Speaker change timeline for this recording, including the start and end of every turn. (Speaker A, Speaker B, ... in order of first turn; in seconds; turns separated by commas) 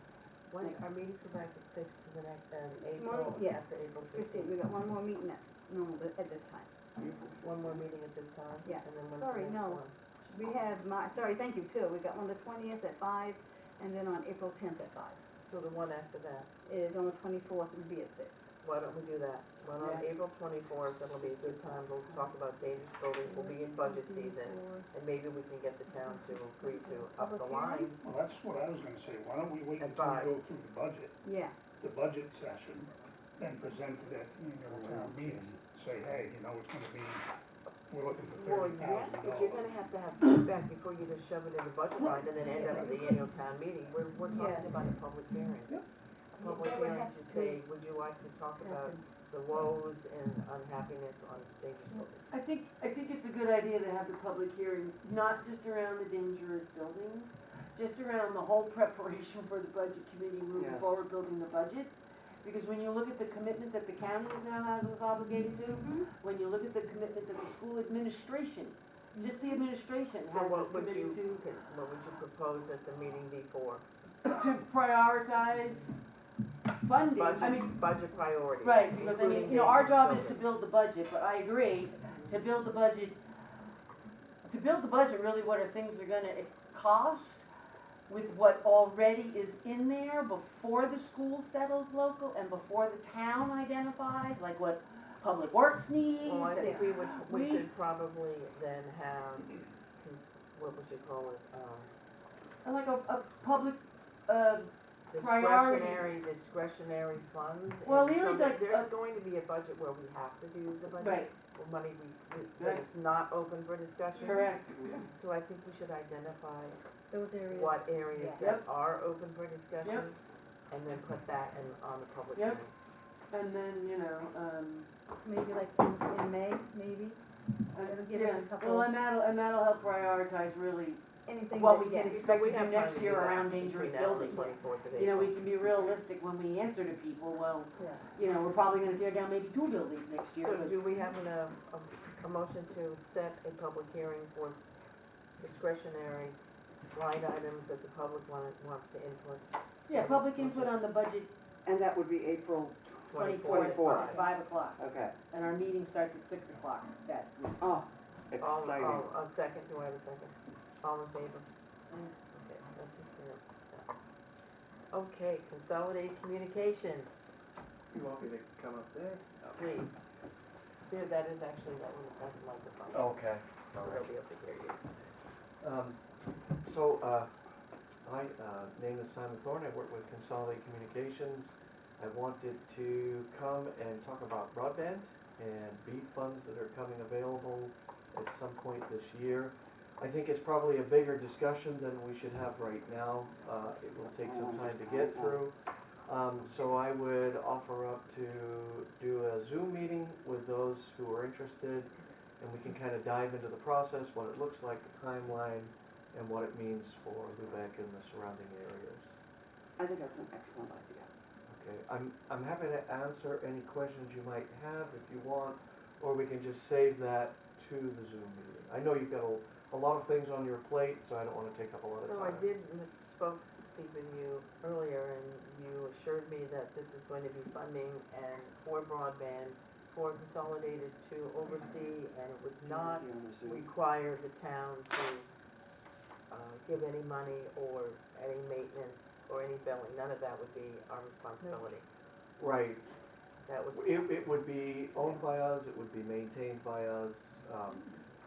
Speaker A: 0.5-4.6, Speaker B: 0.5-0.8, Speaker C: 3.0-6.7, Speaker A: 7.4-9.9, Speaker C: 8.6-15.2, Speaker A: 15.4-16.5, Speaker C: 16.6-18.5, Speaker A: 18.6-28.0, Speaker B: 19.8-20.1, Speaker C: 23.2-24.9, Speaker C: 25.9-27.9, Speaker D: 28.0-31.1, Speaker A: 29.8-30.3, Speaker C: 31.2-31.6, Speaker D: 31.8-37.3, Speaker E: 34.7-35.6, Speaker D: 37.9-39.7, Speaker A: 38.2-45.8, Speaker D: 42.0-43.2, Speaker C: 44.3-44.7, Speaker C: 46.4-47.6, Speaker A: 46.4-52.3, Speaker C: 48.6-49.0, Speaker B: 52.3-71.4, Speaker E: 60.5-61.0, Speaker C: 65.7-66.1, Speaker C: 69.1-69.6, Speaker A: 70.2-73.8, Speaker B: 74.2-76.0, Speaker B: 76.8-77.8, Speaker A: 77.1-80.5, Speaker B: 78.6-83.2, Speaker B: 84.4-87.5, Speaker B: 88.1-97.7, Speaker A: 96.2-101.9, Speaker C: 96.5-96.9, Speaker B: 102.6-106.0, Speaker A: 105.1-114.5, Speaker B: 107.8-108.9, Speaker B: 111.0-111.3, Speaker B: 112.6-112.8, Speaker B: 114.1-115.1, Speaker A: 115.1-116.8, Speaker C: 117.1-118.4, Speaker A: 117.5-120.2, Speaker B: 118.4-118.6, Speaker B: 119.8-120.1, Speaker A: 120.7-122.7, Speaker B: 122.3-122.6, Speaker B: 123.3-124.9, Speaker C: 125.2-127.2, Speaker B: 127.7-140.8, Speaker C: 127.8-128.9, Speaker C: 131.2-132.2, Speaker A: 132.0-135.4, Speaker C: 134.3-134.6, Speaker C: 137.8-138.2, Speaker A: 140.2-144.6, Speaker A: 145.4-146.4, Speaker A: 146.9-150.8, Speaker B: 149.9-151.3, Speaker E: 151.6-155.2, Speaker A: 153.1-154.3, Speaker B: 153.1-157.6, Speaker E: 157.6-159.1, Speaker A: 158.4-161.5, Speaker A: 162.2-163.9, Speaker A: 164.9-167.1, Speaker F: 167.9-169.6, Speaker A: 169.4-170.1, Speaker A: 170.9-173.2, Speaker F: 172.9-174.1, Speaker A: 173.7-174.8, Speaker F: 175.6-176.0, Speaker F: 176.6-177.3, Speaker F: 178.1-195.5, Speaker E: 194.0-195.4, Speaker F: 196.1-209.1, Speaker E: 209.8-211.1, Speaker F: 211.5-222.5, Speaker A: 221.9-235.2, Speaker E: 232.6-233.7, Speaker A: 236.3-241.8, Speaker F: 242.4-242.8, Speaker A: 243.4-245.2, Speaker F: 243.7-247.9